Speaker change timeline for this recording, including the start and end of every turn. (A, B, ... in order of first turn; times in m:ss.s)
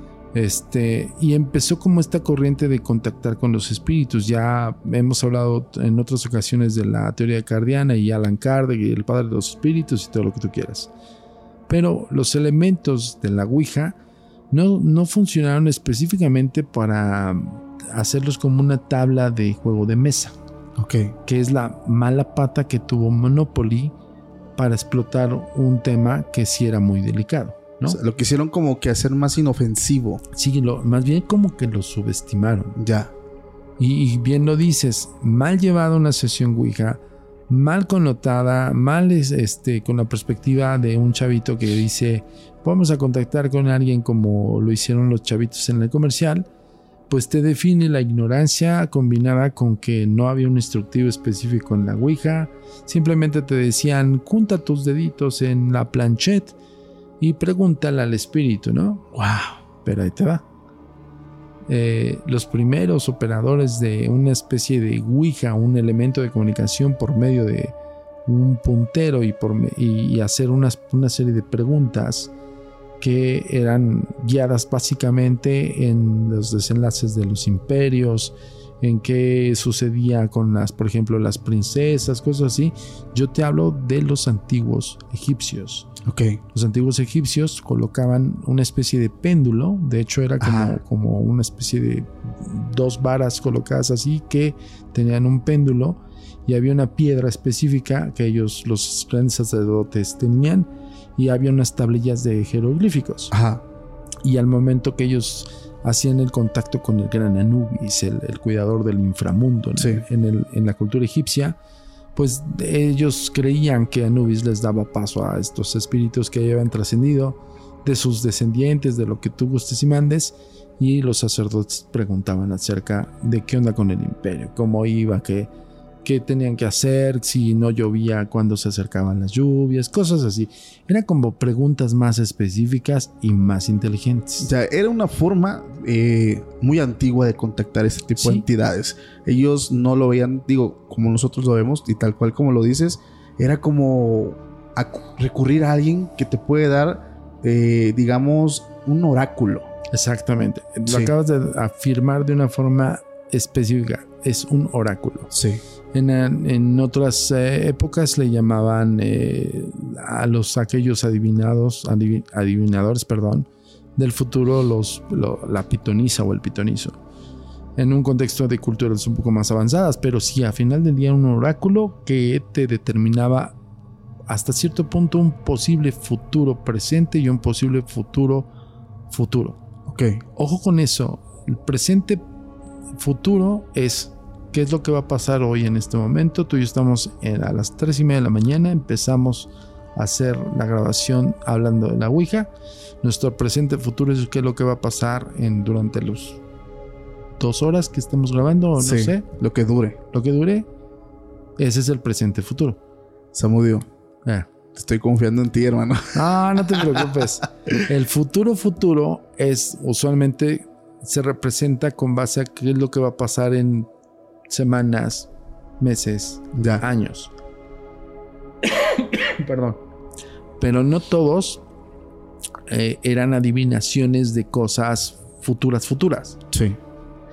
0:00.3-0:10.9 A
0:11.7-0:14.0 A
0:14.5-0:20.4 A
0:20.8-0:21.2 B
0:21.2-0:23.9 A
0:24.6-0:28.0 A
0:27.8-0:30.2 B
0:30.3-0:32.8 A
0:32.8-0:33.1 B
0:33.8-0:46.5 A
0:47.1-0:56.6 A
0:57.2-0:59.0 A
0:59.1-0:59.6 B
0:59.8-1:00.4 A
1:01.7-1:07.7 A
1:08.2-1:12.3 A
1:13.0-1:25.9 A
1:26.0-1:26.4 B
1:26.5-1:43.3 A
1:30.4-1:30.8 B
1:43.3-1:43.6 B
1:44.2-1:51.6 A
1:49.8-1:50.0 B
1:52.1-2:05.5 A
2:06.0-2:14.5 A
2:14.4-2:29.7 B
2:18.2-2:18.4 A
2:29.9-2:35.3 A
2:30.9-2:31.1 B
2:35.3-2:35.6 B
2:35.9-2:47.0 A
2:47.8-2:53.6 A
2:54.3-2:58.5 A
2:59.1-2:59.6 A
2:59.9-3:00.2 B
3:00.4-3:02.2 A
3:03.0-3:12.5 A
3:13.0-3:16.4 A
3:17.4-3:19.3 A
3:18.8-3:20.0 B
3:20.1-3:20.7 A
3:21.6-3:22.8 A
3:23.3-3:23.9 B
3:24.7-3:27.0 B
3:26.1-3:33.9 A
3:34.5-3:35.3 A
3:35.8-3:37.3 A
3:36.5-3:36.8 B
3:38.6-3:39.8 A
3:40.6-3:41.6 A
3:42.7-3:46.4 A
3:46.5-3:46.8 B